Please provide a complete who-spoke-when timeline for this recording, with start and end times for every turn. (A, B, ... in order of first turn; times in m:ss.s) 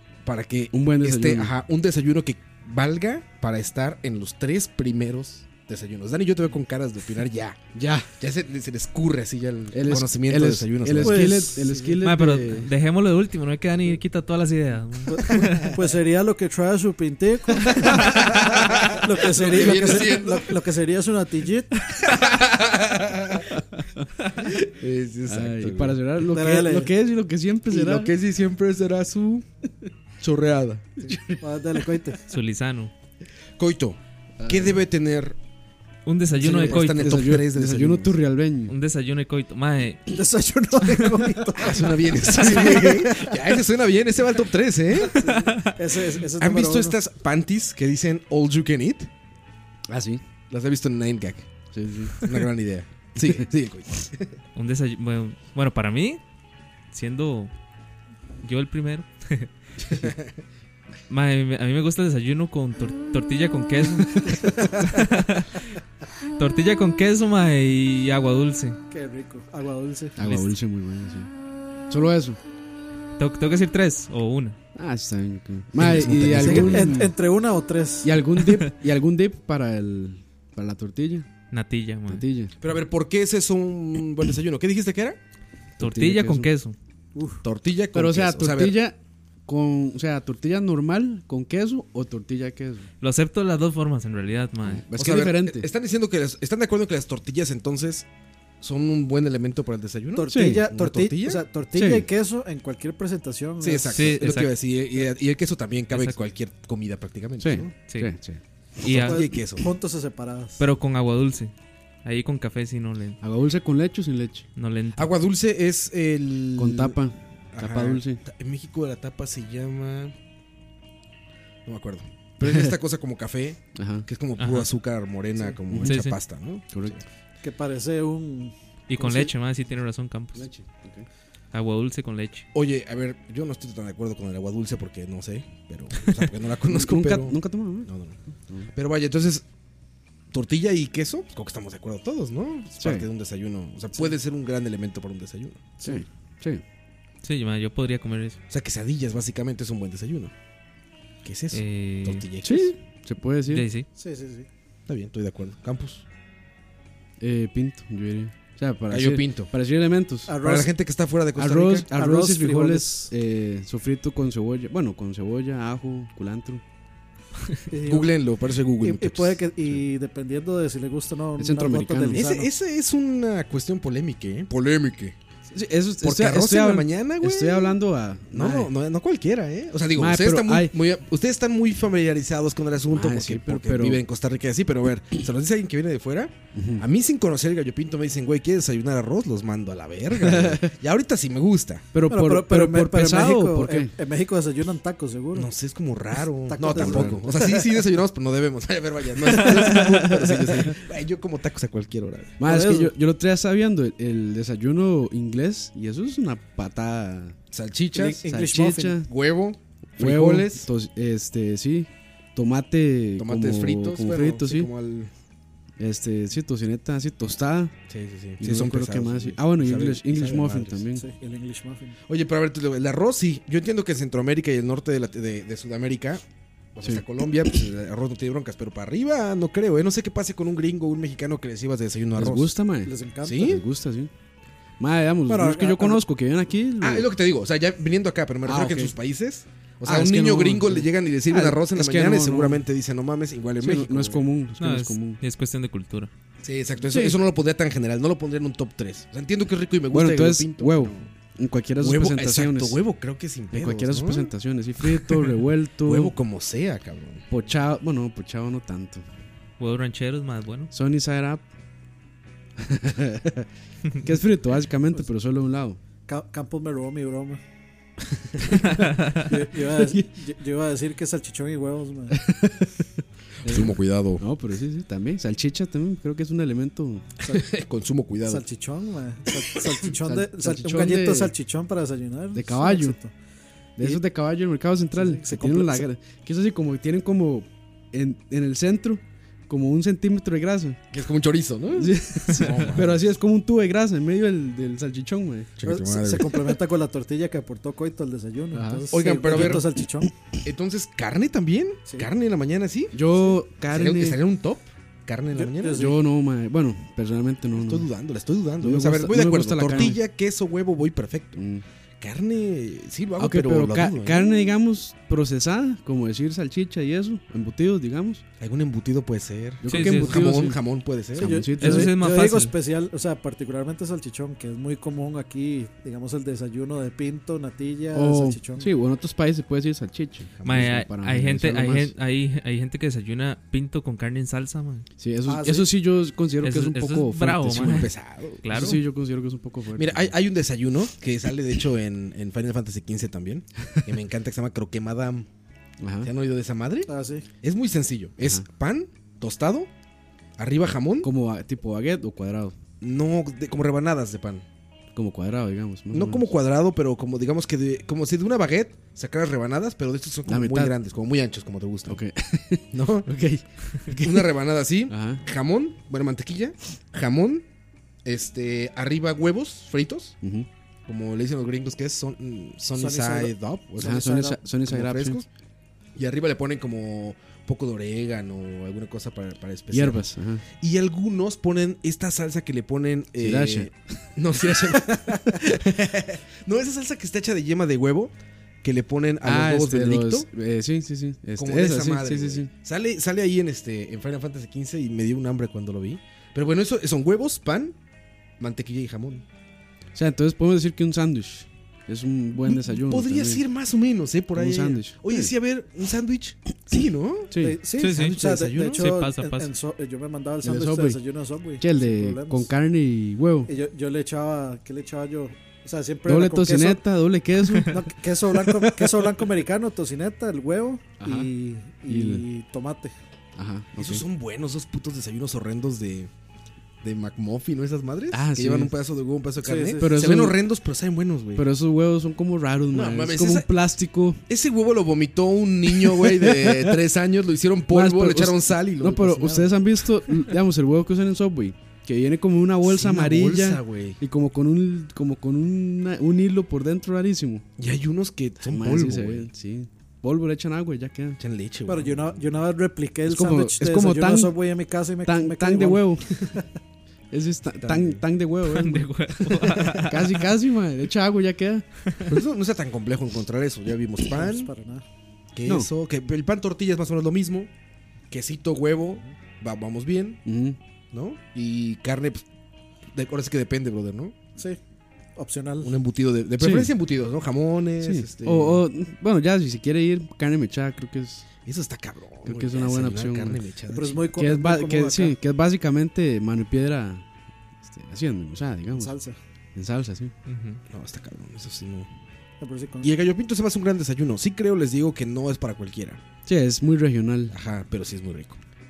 0:00.2-0:07.6 A
0:00.7-0:01.5 B
0:07.7-0:08.1 B
0:08.2-0:11.7 A
0:09.7-0:12.7 B
0:11.0-0:12.0 C
0:12.0-0:15.8 D
0:15.1-0:18.2 C
0:17.7-0:20.6 A
0:18.9-0:21.7 C
0:22.0-0:23.6 A
0:24.5-0:26.0 A
0:25.3-0:28.2 B
0:26.3-0:26.9 C
0:27.7-0:29.5 A
0:30.2-0:31.2 A
0:31.1-0:31.4 B
0:31.3-0:32.2 C
0:32.3-0:32.9 D
0:33.6-0:35.4 A
0:34.4-0:34.8 B
0:36.1-0:37.3 D
0:36.4-0:38.2 A
0:36.6-0:38.8 B
0:38.7-0:40.1 D
0:40.1-0:43.3 C
0:41.6-0:45.2 A
0:45.1-0:47.0 C
0:45.2-0:45.6 D
0:46.4-0:49.1 A
0:49.9-0:50.2 B
0:50.5-0:51.5 A
0:51.7-0:52.2 B
0:52.1-0:54.4 A
0:54.6-0:56.2 D
0:56.9-0:57.5 D
0:58.4-0:59.5 D
1:00.0-1:00.2 A
1:01.1-1:05.6 D
1:06.4-1:08.8 D
1:08.9-1:10.2 C
1:10.2-1:11.3 B
1:10.2-1:10.5 D
1:11.9-1:12.4 B
1:13.2-1:14.6 D
1:14.8-1:17.1 B
1:15.8-1:17.0 A
1:16.4-1:18.2 C
1:18.0-1:21.3 B
1:21.5-1:22.2 D
1:22.1-1:22.5 B
1:22.6-1:25.2 A
1:25.8-1:26.5 B
1:25.8-1:26.8 D
1:27.2-1:27.4 C
1:27.4-1:28.8 A
1:27.9-1:32.9 B
1:33.0-1:34.8 D
1:34.6-1:35.7 B
1:34.9-1:38.1 A
1:38.6-1:41.4 A
1:40.2-1:44.0 C
1:40.3-1:40.7 B
1:41.7-1:42.1 B
1:43.6-1:47.7 A
1:43.9-1:44.6 D
1:45.9-1:46.2 D
1:47.4-1:48.4 B
1:47.9-1:48.1 D
1:48.8-1:49.2 D
1:48.8-1:49.7 A
1:49.1-1:50.6 C
1:50.6-1:51.5 D
1:52.0-1:53.2 D
1:53.2-1:54.5 B
1:54.6-1:55.1 D
1:55.0-1:57.0 A
1:56.6-1:58.2 B
1:57.5-2:00.1 A
2:01.7-2:07.0 A
2:02.4-2:02.8 B
2:03.8-2:04.1 B
2:04.4-2:04.7 D
2:05.7-2:06.0 B
2:05.8-2:06.2 D
2:06.7-2:07.0 B
2:07.4-2:09.3 C
2:08.9-2:10.5 D
2:10.3-2:11.1 B
2:11.5-2:12.5 D
2:12.5-2:18.2 A
2:16.7-2:17.9 B
2:18.7-2:19.4 A
2:20.3-2:25.9 A
2:22.8-2:23.1 B
2:25.8-2:26.6 B
2:27.2-2:28.4 D
2:28.5-2:30.3 A
2:31.2-2:32.7 A
2:31.5-2:32.2 D
2:32.4-2:33.7 B
2:33.5-2:33.9 D
2:34.0-2:34.5 C
2:34.9-2:36.0 A
2:37.2-2:40.4 B
2:38.9-2:39.5 A
2:40.3-2:40.7 C
2:40.4-2:41.9 A
2:41.4-2:46.6 B
2:41.9-2:43.1 C
2:47.7-2:48.2 C
2:47.8-2:49.7 A
2:48.8-2:52.5 C
2:51.4-2:52.3 B
2:52.1-2:55.2 A
2:55.5-2:58.7 B
2:56.0-2:57.8 A
2:58.3-3:11.9 A
2:59.9-3:00.8 B
3:02.9-3:04.0 B
3:06.5-3:06.8 B
3:10.1-3:10.7 B
3:11.9-3:13.9 B
3:12.1-3:15.5 C
3:15.4-3:22.4 A
3:16.5-3:17.5 C
3:16.7-3:17.2 B
3:19.4-3:20.7 B
3:22.4-3:27.4 B
3:22.4-3:22.9 C
3:27.5-3:28.2 A
3:28.0-3:29.0 C
3:28.0-3:29.1 B
3:29.0-3:30.7 A
3:30.0-3:34.7 B
3:33.2-3:35.1 A
3:35.8-3:37.7 B
3:37.9-3:40.8 A
3:38.4-3:41.0 B
3:41.0-3:42.0 C
3:42.1-3:46.2 A
3:46.8-3:52.5 A
3:46.8-3:47.6 B
3:52.1-3:54.1 B
3:52.8-3:53.5 C
3:53.2-3:53.6 A
3:54.8-3:57.1 B
3:55.3-3:56.0 C
3:56.8-4:04.2 A
3:58.4-3:59.0 B
3:59.8-4:02.6 B
4:03.6-4:05.2 B
4:04.6-4:06.1 D
4:06.4-4:11.1 A
4:06.8-4:07.2 B
4:09.9-4:12.8 B
4:11.8-4:14.3 A
4:13.5-4:16.2 B
4:15.8-4:17.2 A
4:17.3-4:19.1 B
4:19.6-4:20.7 D
4:20.7-4:21.4 B
4:22.6-4:23.5 B
4:24.0-4:25.8 B
4:26.1-4:27.4 C
4:28.6-4:29.2 D
4:29.2-4:32.2 C
4:29.6-4:30.1 B
4:32.1-4:32.8 B
4:33.4-4:37.1 B
4:33.4-4:34.2 A
4:37.3-4:38.4 A
4:38.3-4:43.1 C
4:40.0-4:41.3 B
4:42.3-4:43.0 B
4:43.8-4:50.8 B
4:44.9-4:45.9 C
4:50.9-4:53.0 A
4:51.8-4:55.5 B
4:55.6-4:56.6 A
4:55.6-5:00.1 C
4:58.5-4:59.7 B
4:58.9-4:59.7 A
5:00.4-5:03.2 A
5:02.9-5:04.2 B
5:03.7-5:05.9 A
5:05.3-5:06.0 C
5:05.7-5:07.9 B
5:07.6-5:11.4 A
5:08.6-5:10.0 B
5:11.4-5:11.6 B
5:12.0-5:14.3 A
5:13.2-5:18.2 B
5:18.4-5:21.4 A
5:19.6-5:21.9 B
5:19.7-5:20.2 D
5:21.2-5:28.7 C
5:21.6-5:22.5 D
5:27.9-5:32.0 B
5:30.4-5:30.7 A
5:30.4-5:34.9 D
5:35.0-5:37.9 B
5:35.3-5:35.7 C
5:36.4-5:38.8 D
5:37.5-5:38.8 A
5:38.5-5:40.1 B
5:39.8-5:45.3 A
5:45.8-5:46.1 B
5:46.0-5:49.7 A
5:46.9-5:47.2 C
5:48.2-5:48.4 B
5:50.4-5:51.1 A
5:51.0-5:52.6 B
5:52.8-5:54.4 A
5:54.9-5:56.3 B
5:55.9-6:02.0 A
6:00.3-6:00.8 B
6:01.9-6:05.2 B
6:02.7-6:03.1 A
6:03.9-6:07.4 A
6:08.0-6:10.2 A
6:10.2-6:10.5 B
6:10.9-6:15.3 A
6:12.8-6:14.4 C
6:13.8-6:15.2 B
6:16.0-6:20.0 A
6:19.7-6:20.4 B
6:20.6-6:30.3 A
6:23.2-6:23.7 B
6:24.4-6:24.8 B
6:29.2-6:32.5 B
6:31.4-6:37.8 A
6:38.4-6:39.2 A
6:40.0-6:43.4 B
6:42.5-6:48.9 A
6:44.3-6:45.3 B
6:47.3-6:47.6 B
6:47.4-6:52.5 C
6:47.8-6:48.2 D
6:48.8-6:49.5 D
6:50.4-6:51.0 B
6:51.6-6:53.5 B
6:53.5-6:56.8 C
6:56.1-6:59.2 B
6:57.7-7:02.9 C
7:01.0-7:01.3 B
7:01.9-7:02.2 B
7:03.4-7:04.0 B
7:03.8-7:06.1 A
7:06.8-7:11.5 A
7:08.1-7:08.8 B
7:09.4-7:10.0 C
7:09.8-7:10.4 B
7:11.4-7:14.2 B
7:12.7-7:13.5 A
7:14.3-7:19.6 A
7:15.7-7:16.8 B
7:17.7-7:27.4 B
7:22.6-7:24.0 A
7:27.6-7:29.3 A
7:28.4-7:31.2 B
7:31.2-7:32.2 A
7:31.7-7:36.4 C
7:33.1-7:34.4 B
7:35.0-7:36.3 B
7:37.1-7:41.6 B
7:37.6-7:38.0 A
7:38.5-7:40.3 D
7:39.5-7:39.8 A
7:41.9-7:42.1 D
7:42.1-7:44.5 A
7:44.1-7:44.8 C
7:45.4-7:47.5 A
7:45.4-7:45.7 B
7:48.1-7:50.2 A
7:50.3-7:50.6 B
7:50.9-7:52.2 A
7:52.9-7:54.1 A
7:55.2-7:55.7 C
7:55.6-7:58.6 A
7:56.4-7:56.7 B
7:57.8-8:01.3 B
8:01.5-8:04.1 A
8:02.2-8:03.4 B
8:03.7-8:05.2 C
8:04.1-8:07.0 B
8:07.6-8:09.0 B
8:08.7-8:09.2 C
8:09.6-8:10.1 B
8:10.3-8:10.6 D
8:10.7-8:11.9 A
8:12.4-8:12.9 C
8:12.8-8:16.0 A
8:16.3-8:17.4 B
8:17.3-8:18.4 A